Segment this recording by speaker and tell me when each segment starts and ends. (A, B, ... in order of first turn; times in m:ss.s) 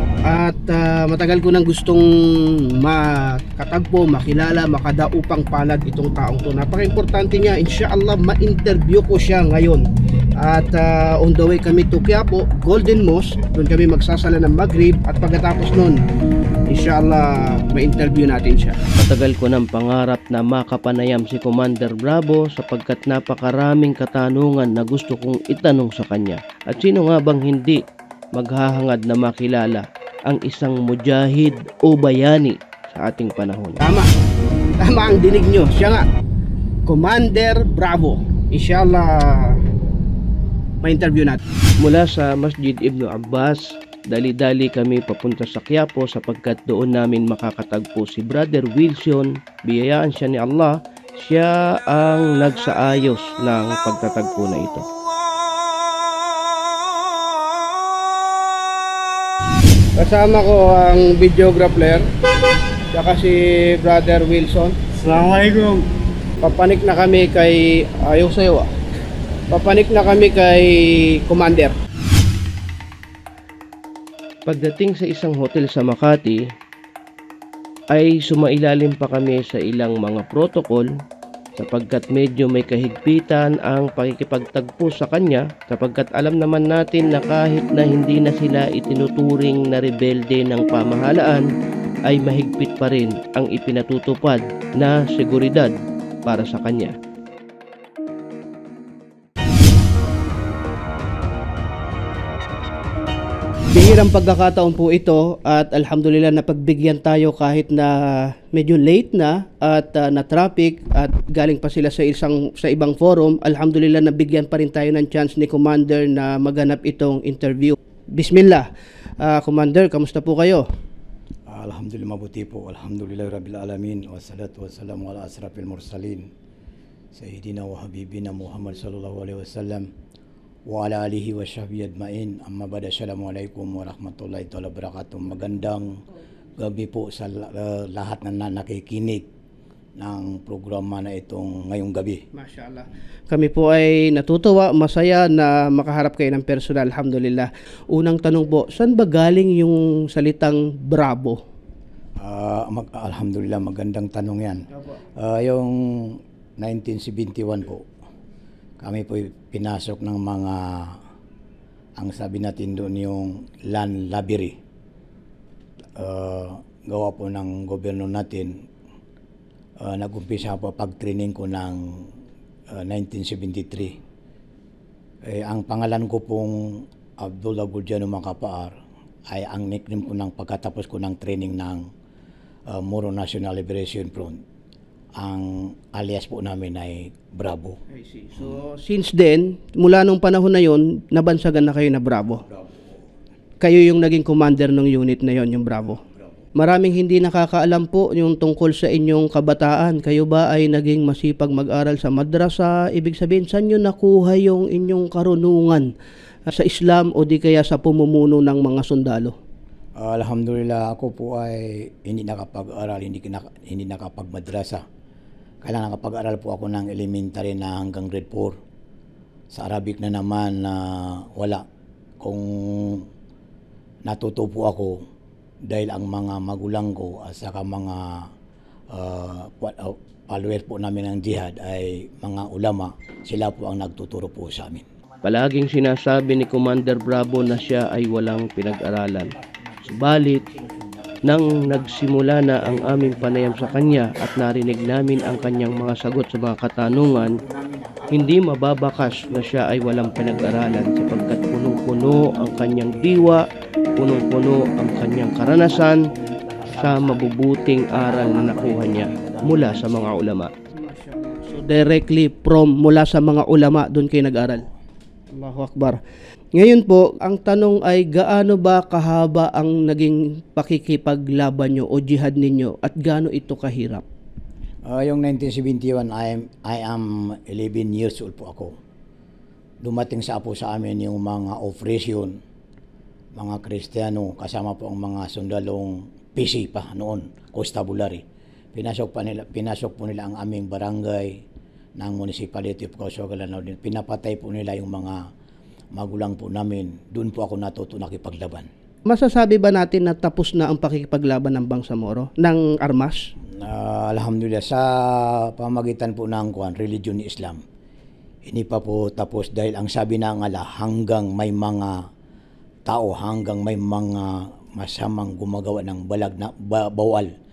0:00.3-0:09.9 A
0:10.4-0:16.0 A
0:16.7-0:18.8 A
0:19.0-0:27.8 B
0:28.3-0:33.8 B
0:33.8-0:34.1 A
0:34.8-0:36.0 A
0:36.9-0:39.6 A
0:40.8-0:41.4 A
0:41.8-0:54.8 B
1:00.0-1:02.1 A
1:02.9-1:05.8 A
1:06.4-1:08.7 A
1:09.5-1:11.7 A
1:14.5-1:16.4 B
1:17.9-1:20.9 B
1:21.6-1:31.4 B
1:32.1-1:37.0 B
1:43.7-1:58.7 A
1:59.2-2:00.6 A
2:01.5-2:06.3 C
2:07.1-2:09.9 C
2:10.7-2:15.9 C
2:16.6-2:19.2 C
2:20.0-2:22.2 C
2:22.3-2:31.4 A
2:32.2-2:34.6 C
2:35.2-2:37.9 C
2:38.8-2:41.0 C
2:42.0-2:44.5 C
2:46.0-2:48.5 C
2:49.8-2:52.1 C
2:52.7-2:54.0 C
2:55.3-2:58.7 C
2:59.3-3:01.8 C
3:02.7-3:04.4 C
3:05.2-3:07.8 C
3:08.0-3:12.4 A
3:13.6-3:16.0 A
3:16.6-3:25.9 A
3:26.5-3:29.3 A
3:30.0-3:34.8 C
3:35.6-3:38.5 C
3:39.5-3:41.6 C
3:42.2-3:43.1 C
3:44.1-3:45.0 C
3:45.7-3:48.3 C
3:48.9-3:54.9 C
3:55.2-3:59.3 B
3:59.4-4:04.2 C
3:59.9-4:00.4 B
4:01.2-4:07.4 B
4:07.4-4:08.2 C
4:08.1-4:13.5 B
4:12.0-4:12.9 C
4:14.0-4:16.1 B
4:15.2-4:20.2 C
4:16.7-4:20.5 B
4:20.8-4:24.7 A
4:25.3-4:26.0 A
4:26.6-4:34.0 A
4:34.9-4:38.8 C
4:39.8-4:42.4 C
4:43.4-4:48.2 C
4:48.7-4:51.4 C
4:52.0-4:55.2 C
4:55.9-4:58.7 C
4:59.1-5:03.2 A
5:03.6-5:07.6 C
5:08.5-5:12.0 C
5:12.9-5:17.3 C